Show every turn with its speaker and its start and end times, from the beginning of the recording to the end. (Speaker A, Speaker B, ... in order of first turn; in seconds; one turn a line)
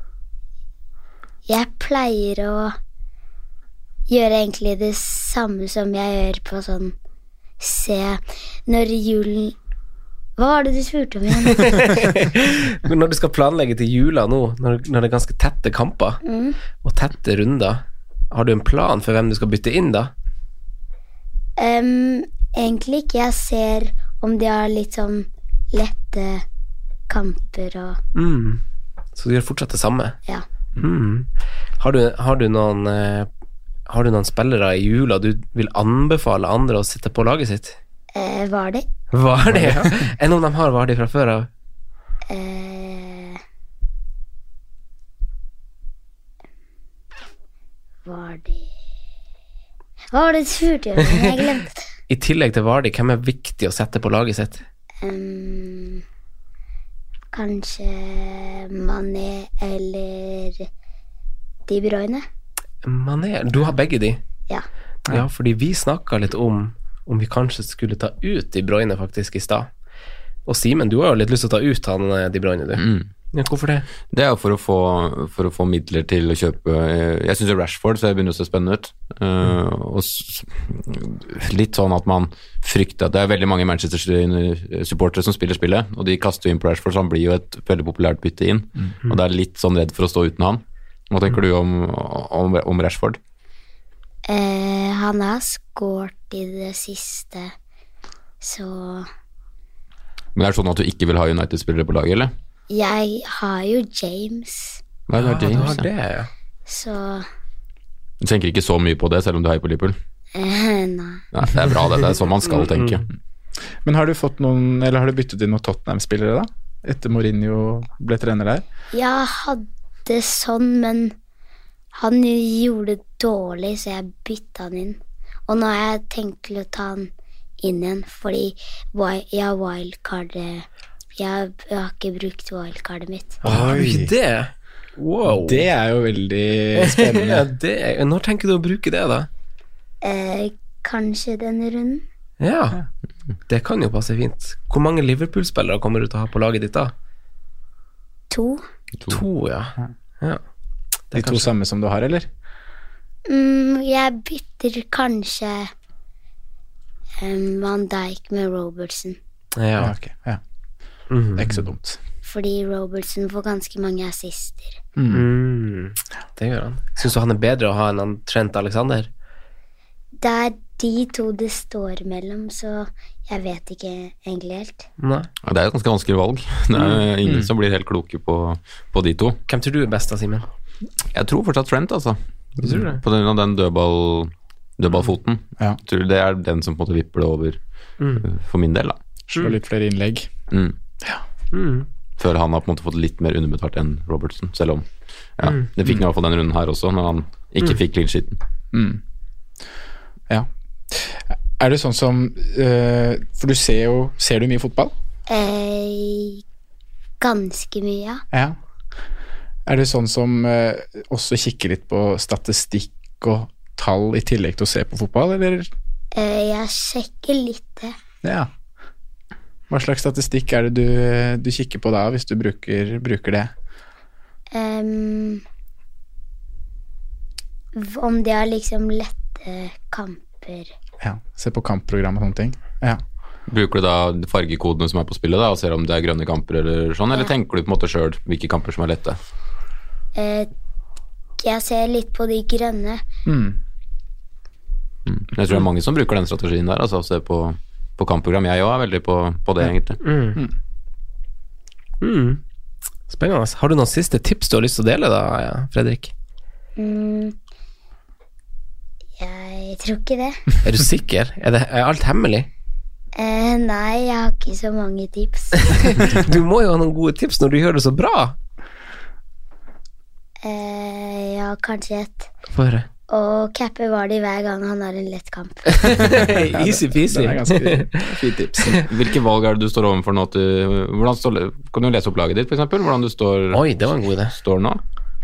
Speaker A: 1.5-2.7
Speaker A: 4.1-6.9
Speaker A: 7.6-9.5
Speaker A: 10.4-11.8
Speaker B: 11.4-16.2
Speaker A: 16.2-16.6
Speaker B: 16.8-20.1
Speaker A: 21.6-26.4
Speaker A: 27.1-28.0
Speaker B: 28.1-28.6
Speaker B: 29.1-30.1
Speaker B: 30.8-31.3
Speaker B: 31.8-33.3
Speaker B: 33.9-37.8
Speaker A: 38.1-38.9
Speaker B: 39.1-41.5
Speaker A: 42.3-43.4
Speaker A: 48.0-48.7
Speaker A: 50.1-51.9
Speaker B: 52.1-54.6
Speaker A: 55.0-56.0
Speaker A: 57.3-60.7
Speaker A: 61.7-62.2
Speaker B: 62.8-64.2
Speaker B: 65.1-69.7
Speaker B: 70.5-73.9
Speaker C: 72.8-73.1
Speaker C: 74.1-93.2
Speaker A: 94.2-97.5
Speaker A: 98.4-99.1
Speaker C: 100.3-102.3
Speaker A: 102.7-104.8
Speaker C: 105.1-105.9
Speaker B: 105.2-106.3
Speaker A: 106.7-107.2
Speaker C: 108.2-109.9
Speaker A: 110.3-111.2
Speaker C: 111.3-113.1
Speaker D: 113.8-118.6
Speaker A: 118.9-121.1
Speaker A: 121.9-133.4
Speaker B: 133.4-135.7
Speaker D: 133.4-134.1
Speaker D: 135.3-137.5
Speaker B: 136.8-139.3
Speaker A: 140.0-142.0
Speaker B: 142.4-142.8
Speaker B: 143.5-146.9
Speaker A: 148.3-148.6
Speaker B: 149.1-150.4
Speaker B: 151.1-151.5
Speaker D: 151.1-152.3
Speaker A: 153.3-155.7
Speaker A: 157.2-159.2
Speaker B: 159.6-159.9
Speaker D: 159.8-160.4
Speaker B: 161.1-161.7
Speaker D: 161.4-162.0
Speaker A: 162.2-164.8
Speaker D: 165.0-165.3
Speaker B: 165.1-169.1
Speaker A: 170.2-174.8
Speaker B: 175.0-175.3
Speaker C: 175.4-179.4
Speaker B: 176.8-177.0
Speaker D: 177.2-177.5
Speaker B: 179.5-180.5
Speaker C: 181.1-187.6
Speaker B: 182.6-183.0
Speaker B: 188.0-188.2
Speaker C: 188.2-189.0
Speaker D: 189.3-190.3
Speaker B: 191.5-191.9
Speaker C: 192.2-194.8
Speaker C: 195.4-198.4
Speaker D: 198.7-199.0
Speaker D: 200.3-204.9
Speaker A: 205.3-206.4
Speaker A: 207.2-208.2
Speaker D: 208.3-208.6
Speaker D: 209.7-215.7
Speaker A: 216.1-217.9
Speaker D: 218.2-218.5
Speaker D: 219.7-223.5
Speaker A: 224.5-225.4
Speaker A: 227.7-230.7
Speaker D: 231.0-233.0
Speaker C: 233.5-239.2
Speaker A: 240.1-240.5
Speaker A: 241.4-243.0
Speaker D: 243.2-243.6
Speaker C: 245.1-250.0
Speaker B: 250.0-250.4
Speaker B: 252.0-252.4
Speaker B: 253.1-256.1
Speaker A: 256.8-257.3
Speaker A: 259.2-260.4
Speaker B: 260.6-262.5
Speaker A: 263.1-265.7
Speaker B: 265.6-268.4
Speaker A: 270.4-272.3
Speaker B: 272.5-272.9
Speaker A: 273.1-276.0
Speaker B: 275.8-278.8
Speaker D: 276.5-278.8
Speaker C: 278.7-283.6
Speaker B: 283.5-284.4
Speaker C: 284.3-284.8